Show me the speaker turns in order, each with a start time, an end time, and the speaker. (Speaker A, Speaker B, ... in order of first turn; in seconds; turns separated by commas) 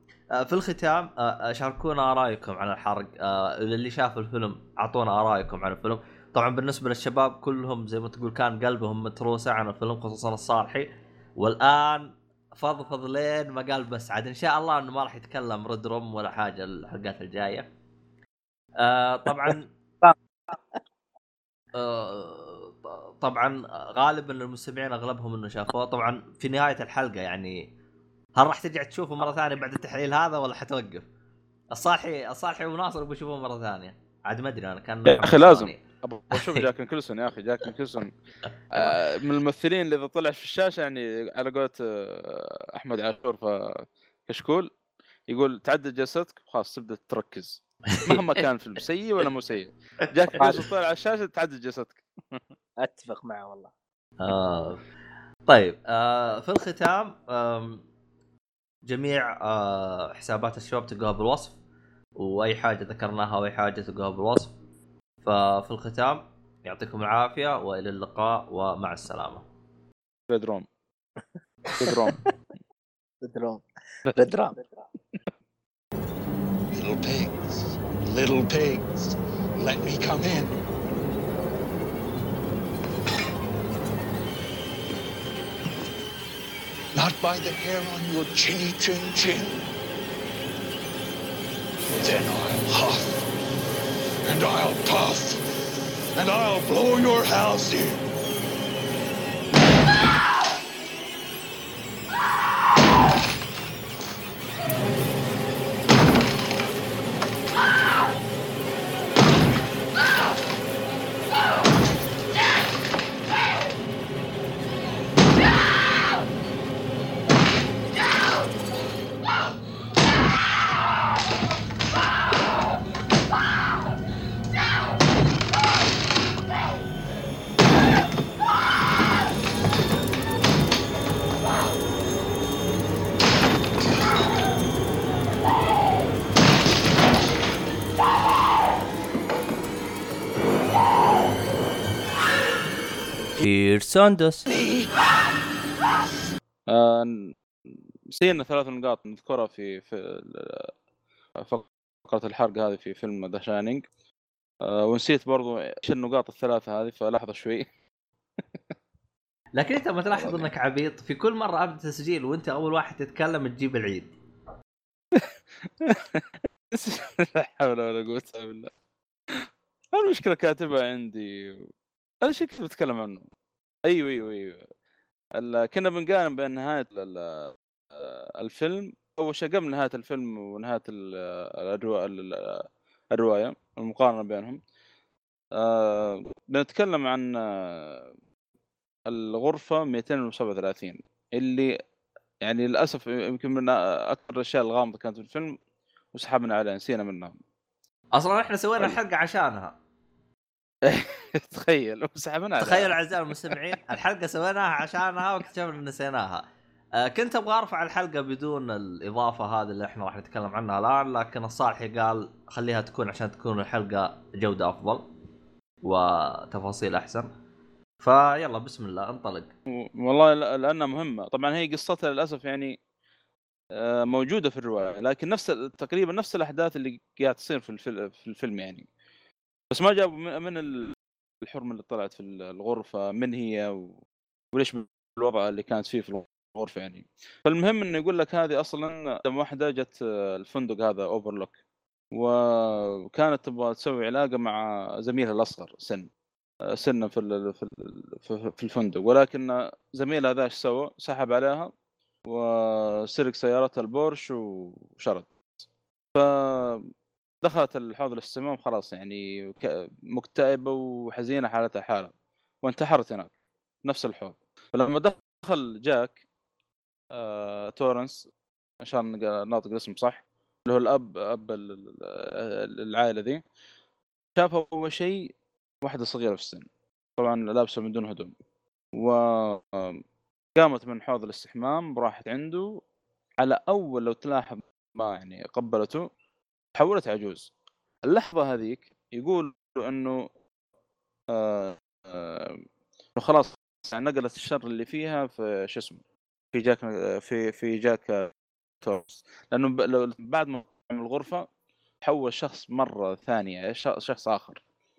Speaker A: 0.3-17.7, Speaker A: 18.8-19.7, Speaker B: 20.0-20.8, Speaker A: 21.7-27.7, Speaker A: 28.4-31.1, Speaker A: 31.7-35.8, Speaker C: 35.0-38.1, Speaker A: 36.3-36.6, Speaker C: 38.7-44.7, Speaker C: 45.3-52.4, Speaker A: 47.9-48.2, Speaker B: 50.4-50.6, Speaker B: 52.8-53.7, Speaker A: 54.2-54.8, Speaker A: 55.5-57.8, Speaker A: 58.8-61.6, Speaker A: 62.2-64.5, Speaker A: 65.2-69.4, Speaker C: 70.3-70.7, Speaker B: 71.7-72.1, Speaker C: 71.8-72.2, Speaker B: 73.2-74.8, Speaker D: 76.7-80.5, Speaker D: 86.9-89.6, Speaker D: 92.0-93.2, Speaker D: 94.2-95.4, Speaker D: 96.2-98.0, Speaker A: 143.4-144.5, Speaker D: 144.6-144.9, Speaker C: 146.7-147.3, Speaker C: 148.1-150.7, Speaker C: 151.4-153.8, Speaker C: 154.6-157.7, Speaker A: 159.6-164.1, Speaker C: 160.1-160.5, Speaker C: 165.1-168.7, Speaker C: 169.9-171.7, Speaker C: 172.2-173.3, Speaker C: 173.9-174.6, Speaker C: 175.4-184.6, Speaker C: 185.6-188.1, Speaker C: 189.1-191.7, Speaker C: 192.4-195.6, Speaker C: 196.1-197.4, Speaker A: 198.1-199.8, Speaker C: 200.8-203.6, Speaker A: 202.6-206.4, Speaker A: 207.0-215.1, Speaker A: 215.8-217.3, Speaker A: 218.0-219.5, Speaker C: 219.7-222.8, Speaker C: 223.8-228.9, Speaker C: 229.7-234.0, Speaker C: 234.5-241.6, Speaker C: 242.1-246.1, Speaker C: 246.7-251.7, Speaker C: 252.3-255.3, Speaker C: 256.1-256.8, Speaker C: 257.4-263.3, Speaker C: 263.8-266.2, Speaker C: 267.1-268.2, Speaker C: 268.8-273.4, Speaker C: 274.4-275.3, Speaker C: 275.8-276.6, Speaker C: 277.2-278.3, Speaker C: 278.9-280.0, Speaker C: 280.6-282.8, Speaker C: 283.4-286.0, Speaker C: 286.8-287.5, Speaker C: 288.0-290.2, Speaker C: 291.3-292.6, Speaker C: 293.1-296.0, Speaker C: 296.5-298.3, Speaker C: 298.8-301.4, Speaker C: 302.0-304.6